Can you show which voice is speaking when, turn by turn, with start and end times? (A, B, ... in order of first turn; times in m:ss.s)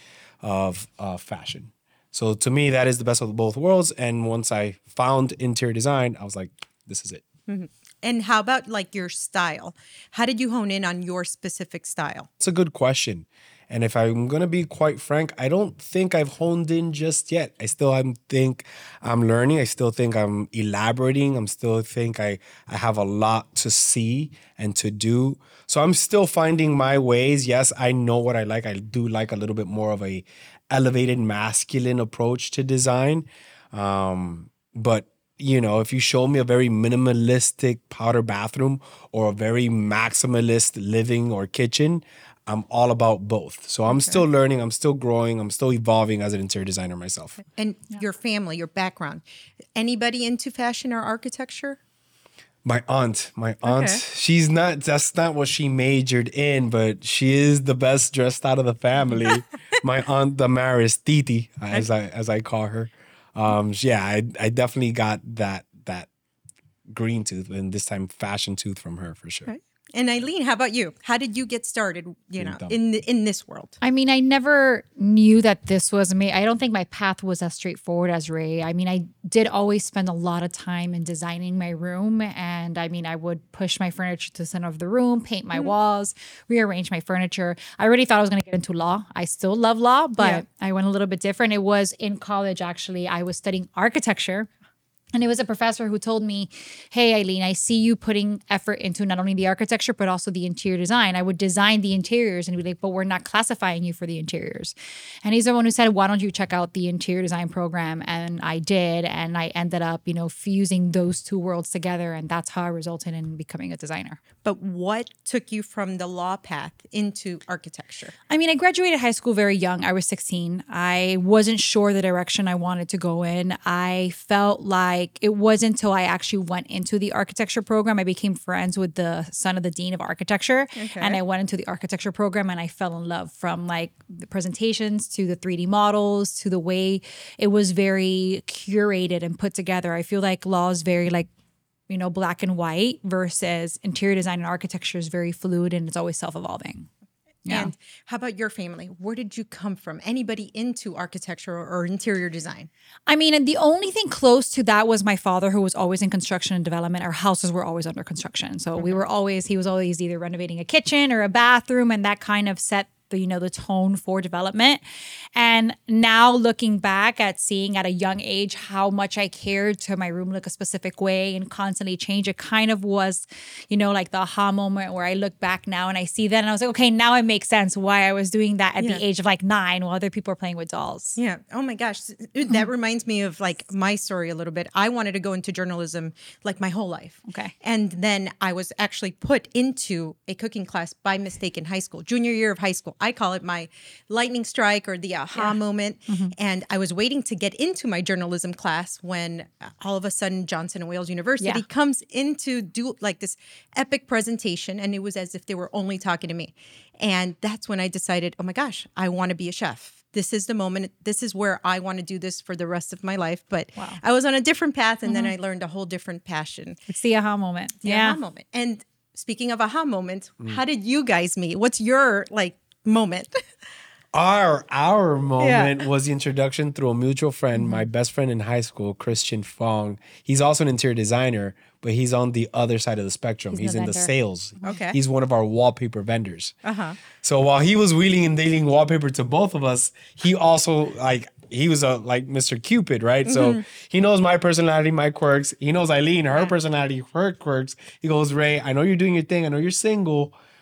0:00.4-0:07.2 A
0:07.5-0:12.3 B
0:12.4-0:47.4 A
0:43.9-0:44.2 B
0:47.5-0:49.2 B
0:49.8-0:51.8 B
0:52.6-1:06.1 A
0:53.6-0:54.0 B
1:06.9-1:09.5 A
1:09.5-1:13.8 B
1:12.4-1:12.8 A
1:13.8-1:34.5 C
1:30.2-1:30.4 B
1:35.1-1:54.2 C
1:54.4-1:58.1 B
1:58.3-2:21.3 C
2:10.8-2:11.2 B
2:21.9-2:26.9 C
2:27.4-2:27.7 C
2:27.5-2:32.7 B
2:33.1-2:44.8 C
2:38.8-2:39.0 B
2:45.4-3:01.2 C
2:58.8-2:59.0 B
3:01.2-3:36.8 B
3:07.3-3:07.5 C
3:15.3-3:16.3 C
3:21.4-3:21.6 C
3:33.8-3:34.0 C
3:35.0-3:35.3 C
3:36.9-3:38.2 C
3:37.8-3:43.4 B
3:44.1-3:56.6 A
3:45.4-3:45.8 B
3:47.6-3:47.8 C
3:53.5-3:54.8 C
3:54.6-3:55.0 B
3:56.6-3:57.0 B
3:57.2-4:10.3 A
4:03.2-4:03.6 B